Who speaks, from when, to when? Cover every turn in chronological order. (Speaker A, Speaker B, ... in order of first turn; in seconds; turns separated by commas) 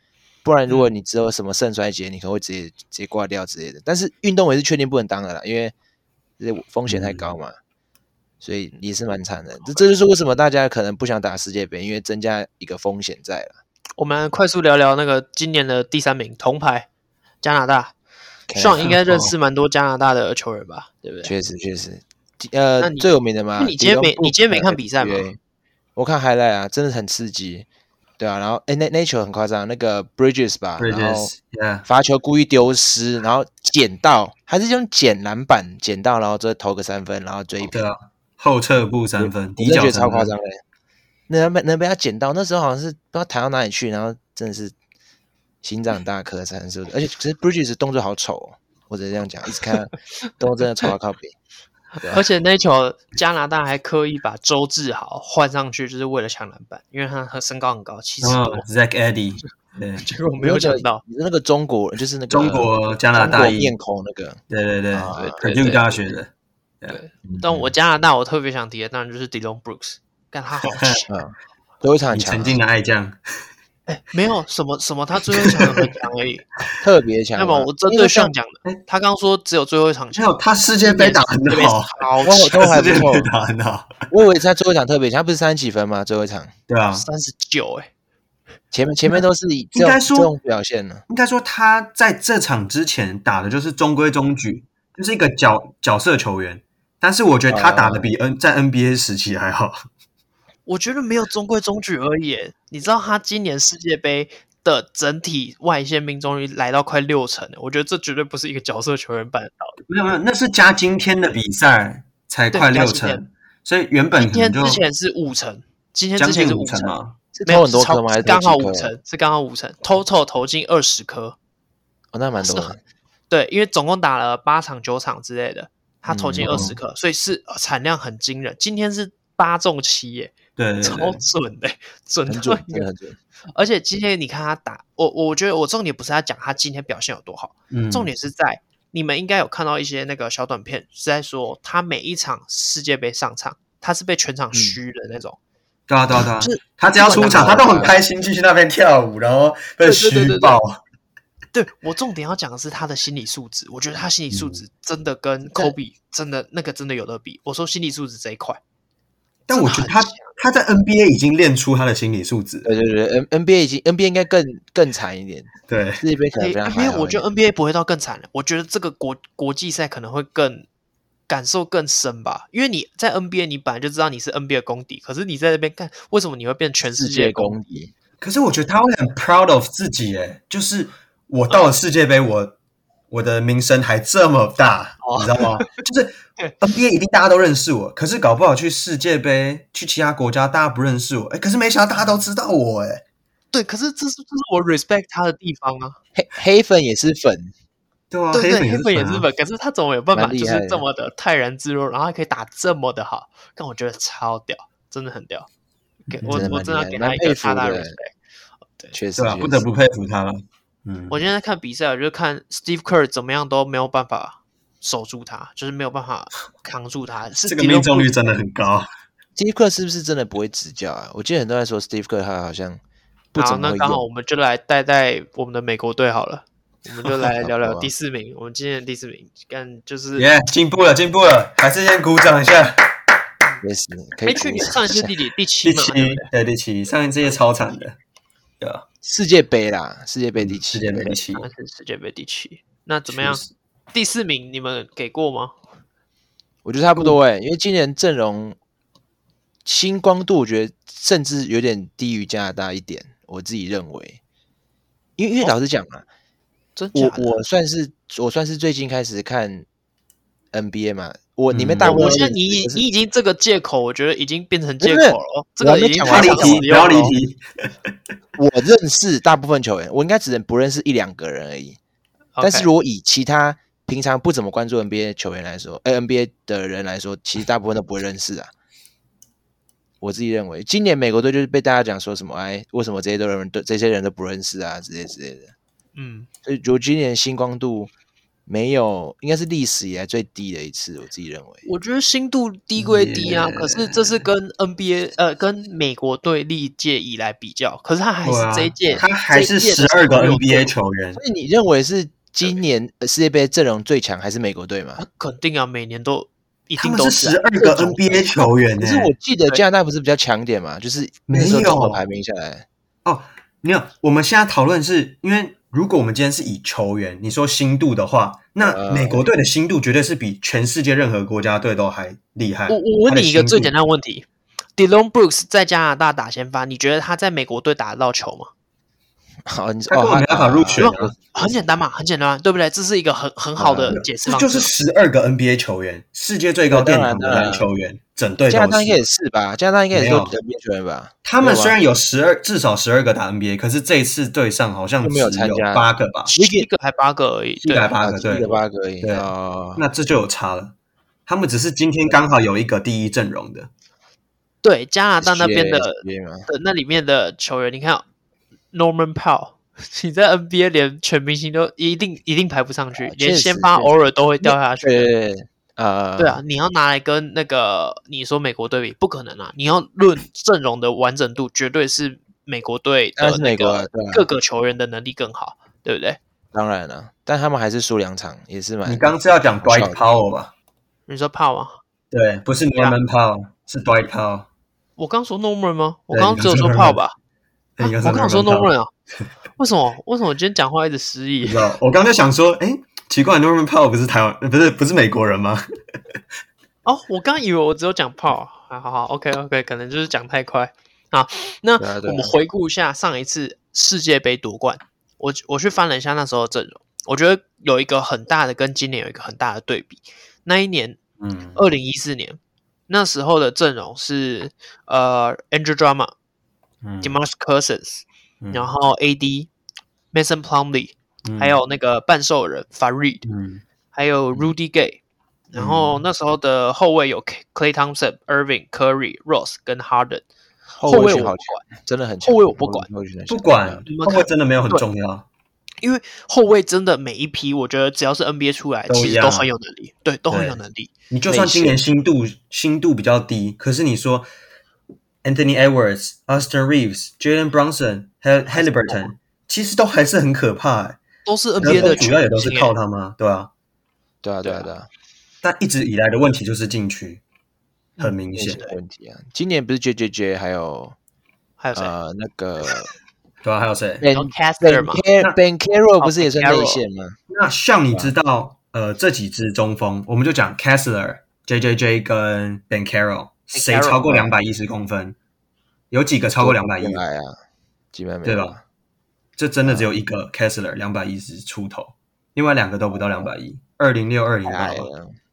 Speaker A: 0.4-5.7, Speaker A: 6.4-7.5, Speaker B: 6.9-7.3, Speaker A: 8.4-13.6, Speaker C: 14.0-16.9, Speaker C: 17.4-17.9, Speaker A: 18.5-18.9, Speaker C: 18.5-21.3, Speaker B: 18.8-19.3, Speaker A: 21.2-25.4, Speaker C: 22.8-25.3, Speaker A: 25.9-27.6, Speaker A: 28.2-31.3, Speaker B: 30.8-31.8, Speaker A: 31.9-37.8, Speaker B: 37.6-40.3, Speaker A: 39.2-40.6, Speaker A: 41.3-44.7, Speaker A: 45.6-51.4, Speaker A: 52.0-52.2, Speaker C: 52.0-58.6, Speaker B: 58.2-60.1, Speaker C: 60.0-61.0, Speaker A: 60.4-64.4, Speaker B: 62.3-63.7, Speaker B: 64.5-66.3, Speaker A: 64.9-65.4, Speaker C: 65.1-66.0, Speaker C: 66.9-71.1, Speaker A: 67.2-67.7, Speaker B: 70.6-71.0, Speaker A: 71.1-72.6, Speaker B: 72.1-73.2, Speaker C: 73.9-76.5, Speaker B: 75.3-75.8, Speaker A: 76.8-78.3, Speaker C: 77.3-83.2, Speaker B: 80.1-84.0, Speaker A: 82.3-83.3, Speaker A: 84.1-86.5, Speaker B: 86.7-87.1, Speaker C: 86.9-87.9, Speaker A: 88.7-91.0, Speaker B: 89.7-90.3, Speaker B: 91.1-99.8, Speaker A: 97.5-98.1, Speaker C: 100.7-109.8, Speaker B: 109.9-114.8, Speaker C: 112.5-113.2, Speaker C: 114.2-121.3, Speaker B: 116.2-117.1, Speaker A: 117.3-118.9, Speaker A: 122.1-122.8, Speaker C: 122.4-122.7, Speaker C: 123.3-132.9, Speaker A: 126.1-126.8, Speaker B: 126.4-126.8, Speaker B: 130.6-131.2, Speaker A: 132.3-133.2, Speaker C: 133.5-145.4, Speaker B: 137.7-138.1, Speaker B: 145.9-150.8, Speaker C: 146.4-147.9, Speaker A: 147.1-148.0, Speaker C: 149.8-150.6, Speaker C: 151.5-158.6, Speaker B: 159.5-162.7, Speaker C: 159.5-160.3, Speaker A: 162.6-167.2, Speaker B: 165.7-166.0, Speaker C: 166.4-170.7, Speaker C: 171.3-177.6, Speaker A: 176.9-177.9, Speaker B: 178.2-182.6, Speaker C: 181.5-181.8, Speaker B: 183.1-193.0, Speaker C: 185.0-185.7, Speaker C: 192.0-192.2, Speaker C: 193.5-196.0, Speaker A: 196.1-197.5, Speaker B: 198.1-199.3, Speaker C: 198.3-205.5, Speaker A: 200.1-200.8, Speaker C: 206.1-208.1, Speaker B: 206.1-206.5, Speaker A: 206.3-207.9, Speaker A: 208.9-209.7, Speaker B: 209.2-211.2, Speaker C: 211.1-218.3, Speaker B: 217.4-218.9, Speaker A: 219.3-222.8, Speaker A: 223.3-224.0, Speaker C: 223.3-230.3, Speaker A: 227.4-227.9, Speaker B: 230.2-232.9, Speaker A: 233.6-235.1, Speaker C: 234.2-236.3, Speaker B: 235.6-238.0, Speaker A: 239.0-241.1, Speaker B: 240.4-241.5, Speaker C: 241.3-243.4, Speaker B: 243.1-243.5, Speaker C: 243.9-245.5, Speaker A: 246.6-248.6, Speaker A: 249.6-254.2, Speaker A: 255.2-256.1, Speaker C: 256.8-257.4, Speaker A: 256.9-259.6, Speaker A: 260.5-262.8, Speaker B: 261.5-262.2, Speaker C: 261.8-267.1, Speaker A: 264.8-266.7, Speaker B: 266.1-267.4, Speaker A: 268.4-271.8, Speaker C: 272.4-272.7, Speaker A: 272.4-278.5, Speaker A: 280.0-285.5, Speaker C: 285.9-286.3, Speaker A: 286.4-287.9, Speaker A: 288.5-291.6, Speaker C: 291.6-300.7, Speaker B: 292.8-294.2, Speaker B: 298.2-301.2, Speaker A: 301.1-305.0, Speaker C: 305.0-308.2, Speaker B: 306.8-309.1, Speaker A: 308.8-312.6, Speaker B: 311.3-312.0, Speaker B: 313.0-323.7, Speaker A: 318.6-319.3, Speaker C: 322.7-324.2, Speaker C: 324.8-328.5, Speaker A: 329.4-331.6, Speaker B: 329.9-331.1, Speaker C: 330.8-334.7, Speaker A: 333.6-334.0, Speaker B: 333.9-339.0, Speaker A: 336.7-337.7, Speaker A: 338.5-341.8, Speaker B: 339.9-340.3, Speaker B: 341.2-346.3, Speaker A: 345.0-346.7, Speaker C: 346.3-347.9, Speaker B: 347.6-350.7, Speaker A: 348.0-349.8, Speaker B: 351.3-353.7, Speaker C: 354.6-358.0, Speaker A: 355.2-356.5, Speaker C: 358.7-365.1, Speaker A: 362.9-366.4, Speaker C: 366.2-376.2, Speaker A: 373.2-374.3, Speaker A: 376.5-380.0, Speaker B: 378.9-380.5, Speaker C: 381.1-381.8, Speaker B: 382.1-384.5, Speaker C: 385.0-387.1, Speaker B: 386.1-387.0, Speaker B: 387.8-388.7, Speaker C: 387.8-388.9, Speaker C: 389.6-391.7, Speaker B: 391.4-395.6, Speaker C: 396.8-411.0, Speaker A: 401.8-402.3, Speaker B: 411.2-411.6, Speaker C: 411.5-416.1, Speaker B: 416.8-417.1, Speaker C: 417.0-419.5, Speaker B: 418.4-418.7, Speaker C: 420.1-423.2, Speaker B: 421.2-421.6, Speaker B: 423.2-423.6, Speaker C: 423.9-425.0, Speaker C: 425.5-430.2, Speaker B: 425.5-426.0, Speaker A: 430.8-433.8, Speaker C: 430.8-431.7, Speaker C: 432.2-432.9, Speaker B: 433.3-435.2, Speaker C: 433.9-434.8, Speaker C: 435.8-440.9, Speaker B: 438.9-439.5, Speaker B: 440.3-440.6, Speaker B: 441.1-444.3, Speaker A: 441.3-441.8, Speaker B: 445.2-451.0, Speaker C: 448.6-449.1, Speaker C: 451.2-452.7, Speaker A: 451.6-452.0, Speaker B: 451.6-453.5, Speaker A: 454.2-454.9, Speaker C: 454.4-454.7, Speaker B: 455.4-457.2, Speaker B: 458.0-458.6, Speaker C: 458.0-458.8, Speaker A: 458.3-460.9, Speaker C: 461.6-461.9, Speaker A: 461.7-462.9, Speaker B: 463.4-464.0, Speaker A: 464.0-467.2, Speaker C: 464.1-465.1, Speaker C: 466.0-466.8, Speaker B: 467.3-475.1, Speaker C: 473.5-474.2, Speaker B: 475.9-477.0, Speaker A: 476.4-477.4, Speaker A: 477.9-478.6, Speaker B: 478.2-478.5, Speaker B: 479.4-484.9, Speaker A: 479.6-479.9, Speaker A: 484.4-485.1